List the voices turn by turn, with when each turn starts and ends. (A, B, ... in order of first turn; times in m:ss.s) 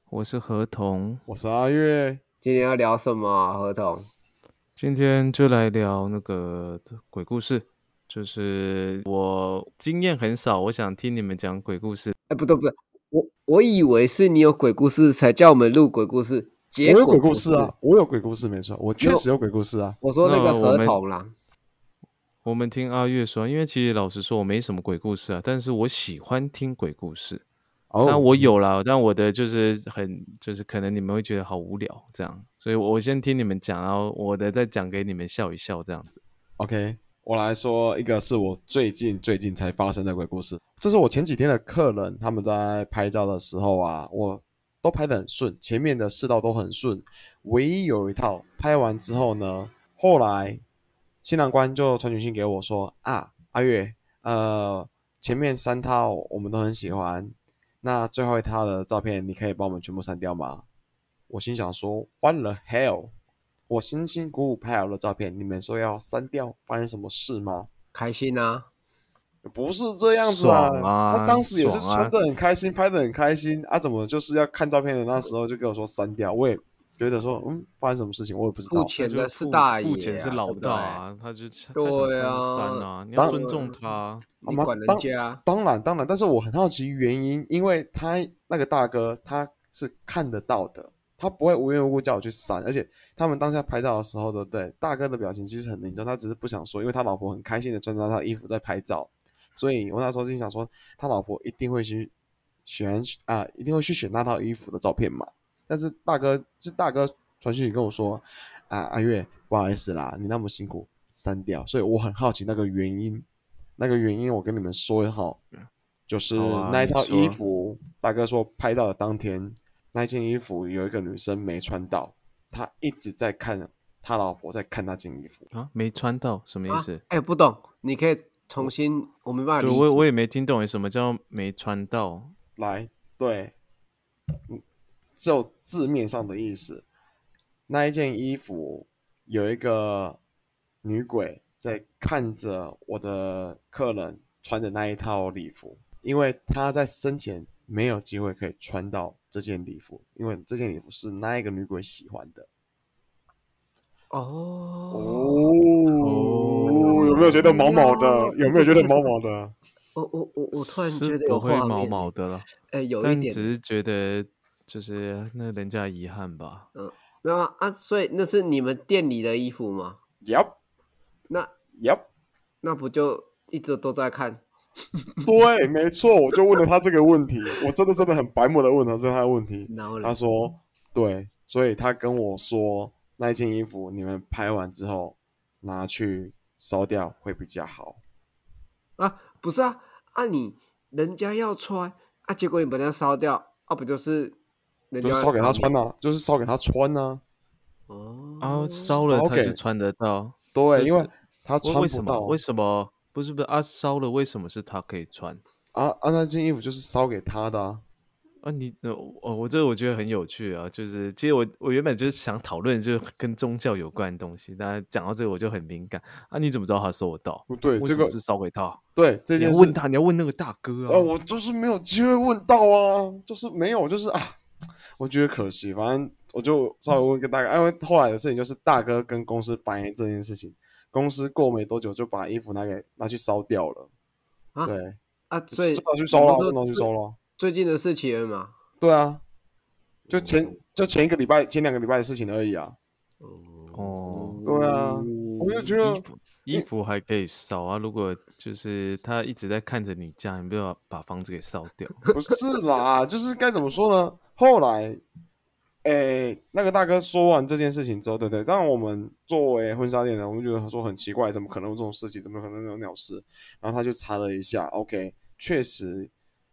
0:00.1-0:01.2 A
0:01.3-0:02.2 B
0:02.4-0:04.1 C
0:04.8-0:12.1 A
0:12.3-0:17.7 C
0:16.8-0:20.0 B
0:19.0-0:19.2 C
0:20.0-0:21.3 C
0:20.2-0:21.0 A
0:22.4-0:27.4 A
0:27.9-0:28.5 B
0:28.0-0:36.2 A
0:36.6-0:50.6 B
0:51.2-1:00.6 B
1:01.3-1:03.1 B
1:03.7-1:07.7 B
1:07.9-1:08.7 C
1:09.4-1:18.9 B
1:10.2-1:12.1 A
1:18.7-1:21.0 C
1:19.0-1:24.3 A
1:21.8-1:23.7 C
1:23.2-1:23.4 B
1:24.4-1:25.4 C
1:24.4-1:42.1 B
1:42.7-1:53.2 B
1:53.8-1:55.4 B
1:56.1-2:05.4 B
1:56.3-1:57.4 A
2:05.5-2:07.0 A
2:06.7-2:10.0 C
2:09.6-2:12.3 A
2:12.6-2:13.5 B
2:15.2-2:16.8 B
2:17.7-2:20.2 B
2:20.8-2:32.5 B
2:34.1-2:35.6 C
2:34.9-2:39.5 B
2:36.0-2:37.5 A
2:36.6-2:39.1 C
2:39.9-2:43.5 C
2:40.5-2:42.5 A
2:43.0-2:46.7 A
2:46.8-2:50.0 C
2:50.2-2:50.6 B
2:51.8-2:52.1 B
2:52.6-2:54.4 C
2:55.0-2:55.3 C
2:55.2-3:08.0 B
2:59.7-3:00.2 C
3:09.0-3:14.4 C
3:14.9-3:15.8 C
3:15.0-3:17.2 B
3:17.9-3:19.0 C
3:18.4-3:21.1 A
3:18.9-3:19.6 B
3:20.5-3:22.4 B
3:21.6-3:25.4 A
3:25.7-3:27.8 B
3:28.4-3:38.8 A
3:37.5-3:38.2 B
3:39.0-3:39.8 B
3:39.4-3:41.1 A
3:40.9-3:44.4 B
3:45.0-3:53.9 B
3:54.6-3:55.0 B
3:55.3-3:58.5 C
3:55.5-3:57.2 B
3:58.8-3:59.2 B
4:00.1-4:00.6 C
4:00.1-4:02.8 B
4:03.2-4:05.8 C
4:03.7-4:04.4 A
4:04.4-4:06.7 B
4:05.8-4:12.0 A
4:12.1-4:15.0 B
4:15.8-4:26.1 B